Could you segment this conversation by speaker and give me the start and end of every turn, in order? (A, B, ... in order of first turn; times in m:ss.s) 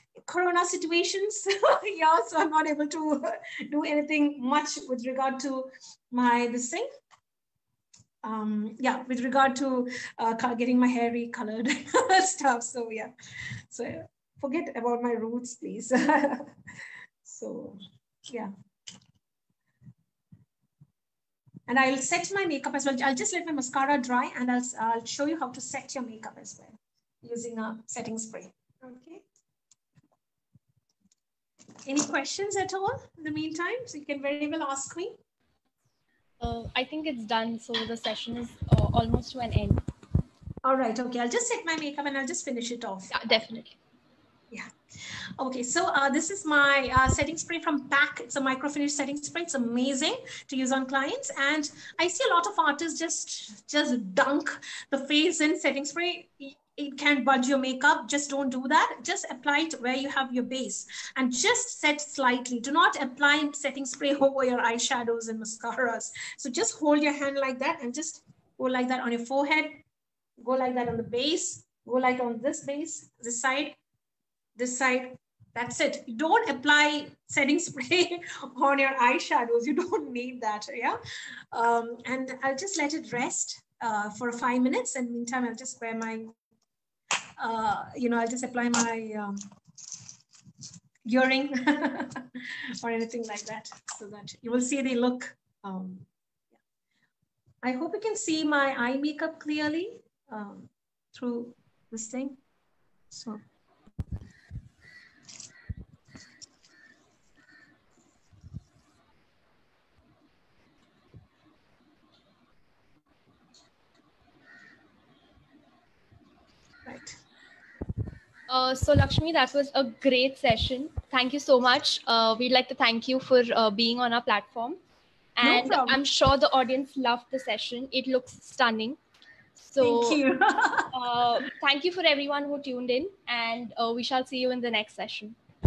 0:00.2-0:06.9 A
0:08.2-0:13.1 A
0:13.7-0:16.5 A
0:17.2-0:18.5 A
0:21.7-0:29.2 A
0:31.9-0:35.2 A
0:36.4-0:39.8 B
0:40.6-0:43.3 A
0:43.1-0:43.8 B
0:45.4-1:09.8 A
1:10.4-1:13.8 A
1:14.6-1:21.0 A
1:21.5-1:26.3 A
1:27.4-1:29.4 A
1:31.0-1:36.1 A
1:37.6-1:42.4 A
1:43.1-1:43.4 A
1:56.8-1:57.2 A
1:58.5-2:04.8 B
2:05.4-2:09.0 B
2:05.4-2:06.0 A
2:09.6-2:10.2 B
2:09.8-2:10.9 A
2:10.9-2:15.4 B